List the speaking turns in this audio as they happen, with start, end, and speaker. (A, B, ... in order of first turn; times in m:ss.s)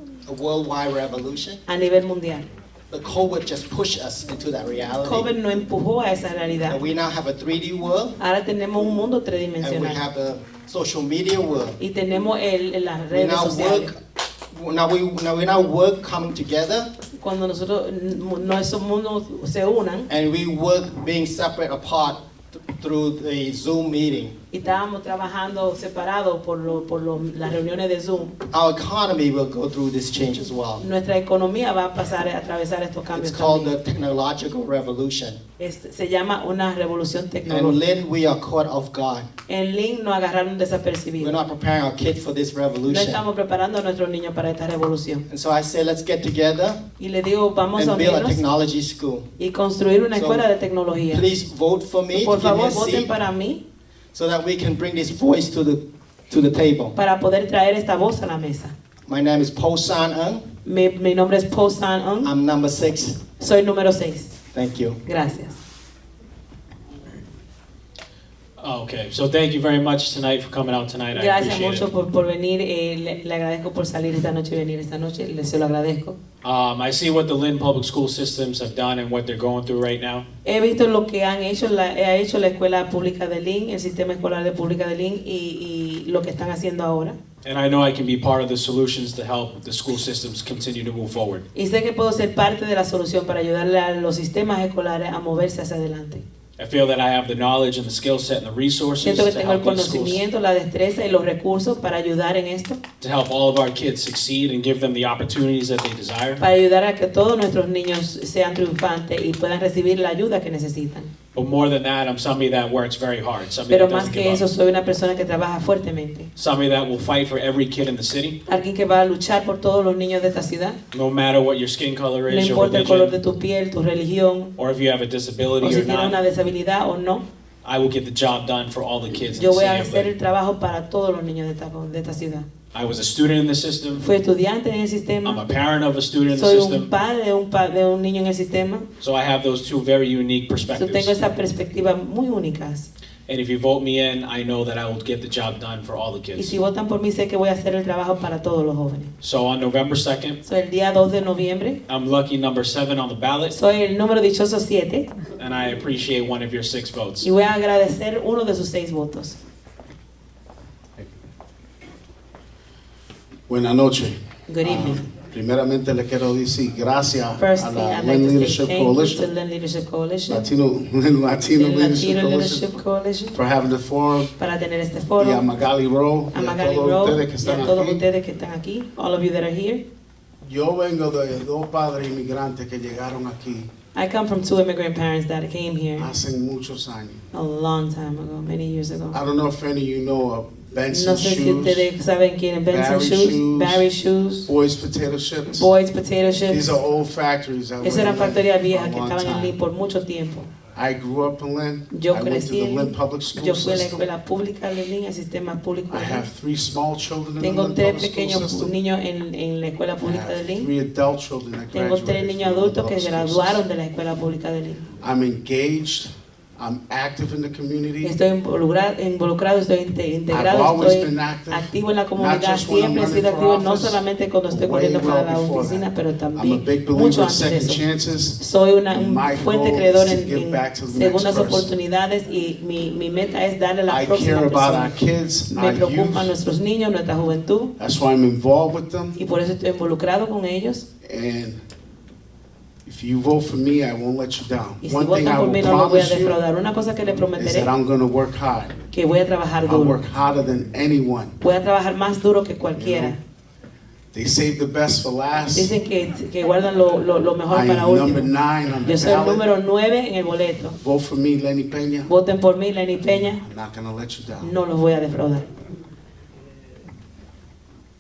0:00.3-0:01.6 A
0:01.7-0:02.5 B
0:02.9-0:05.3 A
0:05.0-0:06.8 B
0:06.7-0:08.2 A
0:08.2-0:10.0 B
0:09.6-0:11.8 A
0:11.8-0:14.0 B
0:13.1-0:14.0 A
0:14.5-0:16.9 A
0:17.2-0:20.1 B
0:20.1-0:24.3 A
0:24.5-0:28.4 B
0:28.5-0:30.9 A
0:30.8-0:33.7 B
0:33.1-0:35.4 A
0:35.6-0:37.8 B
0:37.4-0:39.3 A
0:39.5-0:41.4 B
0:41.2-0:43.2 A
0:42.8-0:45.2 B
0:45.3-0:46.8 A
0:47.0-0:48.4 B
0:47.7-0:49.3 A
0:49.4-0:51.3 B
0:50.1-0:50.4 A
0:51.1-0:53.1 A
0:52.1-0:53.6 B
0:54.1-0:56.9 A
0:57.0-0:58.7 B
0:59.1-1:00.5 A
1:00.6-1:02.3 B
1:02.2-1:03.2 A
1:03.4-1:04.3 B
1:04.5-1:05.0 A
1:05.0-1:05.6 B
1:08.6-1:11.9 C
1:11.1-1:16.2 B
1:16.4-1:20.3 C
1:20.4-1:27.2 B
1:27.4-1:31.4 C
1:31.6-1:36.2 B
1:36.6-1:40.2 C
1:39.0-1:42.8 B
1:43.0-1:46.4 C
1:46.4-1:51.1 B
1:51.3-1:54.4 C
1:53.7-1:56.3 B
1:56.4-1:58.4 C
1:58.4-2:00.8 B
2:00.9-2:03.2 C
2:02.3-2:04.5 B
2:04.6-2:06.2 C
2:05.6-2:07.2 B
2:07.6-2:10.1 C
2:09.3-2:12.5 B
2:12.7-2:14.1 C
2:14.0-2:15.4 B
2:15.2-2:16.9 C
2:16.3-2:18.9 B
2:19.0-2:21.2 C
2:20.7-2:22.9 B
2:23.3-2:26.6 C
2:26.4-2:29.1 B
2:29.2-2:30.4 C
2:30.4-2:31.8 B
2:31.9-2:33.6 C
2:33.5-2:35.1 B
2:35.4-2:37.3 C
2:37.2-2:39.4 B
2:43.5-2:49.2 D
2:44.5-2:45.0 B
2:47.4-2:50.5 B
2:50.3-2:52.8 D
2:51.5-2:53.4 B
2:53.3-2:54.3 D
2:54.4-2:55.4 B
2:55.2-2:58.0 D
2:56.3-2:59.8 B
3:00.4-3:03.7 D
3:03.9-3:06.1 B
3:06.0-3:07.2 D
3:07.3-3:09.2 B
3:09.1-3:11.9 D
3:10.9-3:14.5 B
3:12.7-3:13.9 D
3:14.4-3:15.7 D
3:15.5-3:16.8 B
3:16.5-3:19.6 D
3:17.8-3:20.5 B
3:20.8-3:24.0 D
3:21.9-3:26.2 B
3:25.9-3:28.7 D
3:27.4-3:30.7 B
3:30.0-3:33.6 D
3:31.7-3:34.9 B
3:35.0-3:38.2 D
3:38.0-3:47.8 B
3:40.3-3:51.7 D
3:48.4-3:57.7 B
3:53.9-3:56.3 D
3:57.8-3:59.2 D
3:59.2-4:00.8 B
4:01.0-4:01.6 D
4:02.8-4:06.4 D
4:04.8-4:07.7 B
4:07.3-4:08.8 D
4:08.9-4:10.0 B
4:09.6-4:11.4 D
4:11.4-4:13.2 B
4:12.7-4:13.2 D
4:14.1-4:15.7 D
4:15.5-4:18.3 B
4:17.5-4:19.5 D
4:18.8-4:20.8 B
4:20.8-4:22.1 D
4:22.1-4:23.4 B
4:23.1-4:24.6 D
4:24.4-4:25.5 B